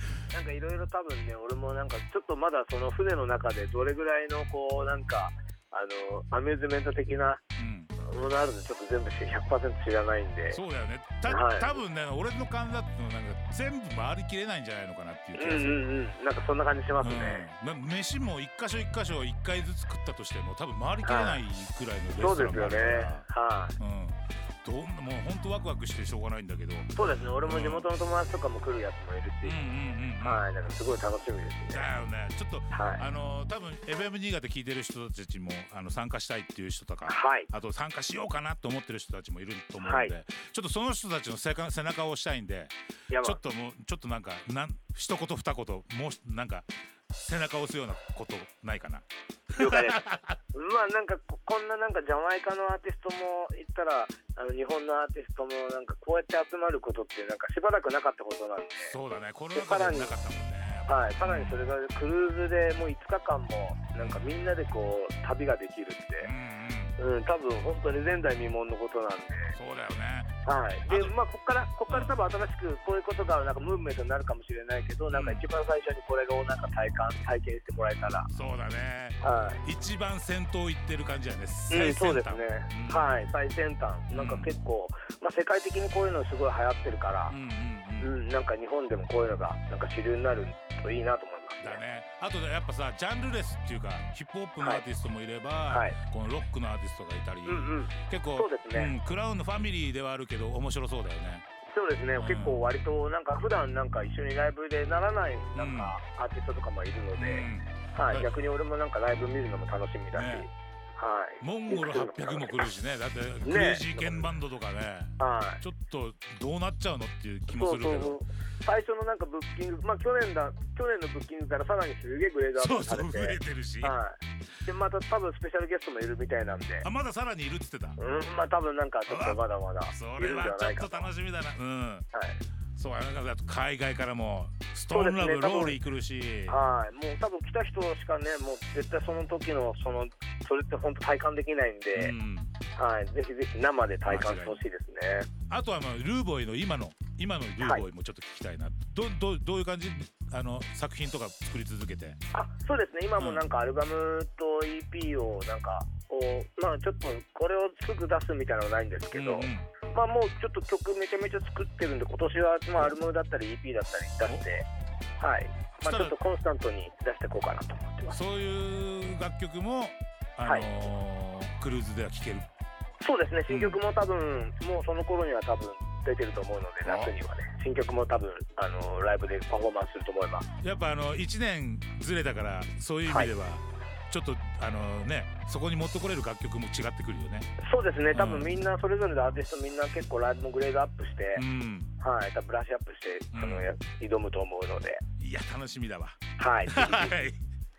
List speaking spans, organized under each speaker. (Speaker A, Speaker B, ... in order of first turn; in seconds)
Speaker A: 0.3-7.4, 8.0-10.6, 11.3-11.8, 15.3-17.5, 21.0-21.4, 22.2-23.8, 26.9-29.6, 30.2-31.9, 32.7-33.0, 37.1-37.5, 39.8-40.1, 43.1-43.4, 49.5-50.0, 50.5-58.9, 59.5-60.1, 60.9-66.3, 67.0-69.5, 70.5-78.3, 79.2-79.6, 81.7-87.3, 88.0-91.8, 95.7-96.0, 97.5-98.9, 101.7-112.7, 113.4-114.3, 115.2-115.6, 117.5-126.9, 128.0-131.1, 132.1-132.4, 134.9-135.8, 136.5-142.1, 142.8-145.3, 152.3-164.7, 165.2-168.2, 170.4-170.7, 173.0-180.5, 187.6-191.4, 192.0-195.0, 196.4-197.2
Speaker B: 7.6-7.9, 10.5-15.8, 17.0-23.3, 23.8-27.9, 29.4-30.4, 31.7-50.4, 58.8-61.6, 64.0-64.3, 66.2-66.9, 69.5-70.3, 70.9-71.2, 71.9-72.1, 75.1-75.5, 78.3-83.1, 84.1-84.5, 87.3-88.2, 91.6-101.4, 102.2-102.6, 105.5-106.0, 107.2-108.3, 110.1-110.5, 111.4-118.2, 122.5-124.0, 126.8-128.0, 129.1-132.1, 132.8-136.6, 141.9-142.5, 144.1-144.6, 145.5-152.2, 153.2-153.4, 159.1-159.7, 165.8-166.2, 168.1-172.5, 173.5-173.8, 176.8-177.1, 180.6-187.5, 188.1-188.5, 191.3-191.9, 193.3-193.7, 195.2-197.4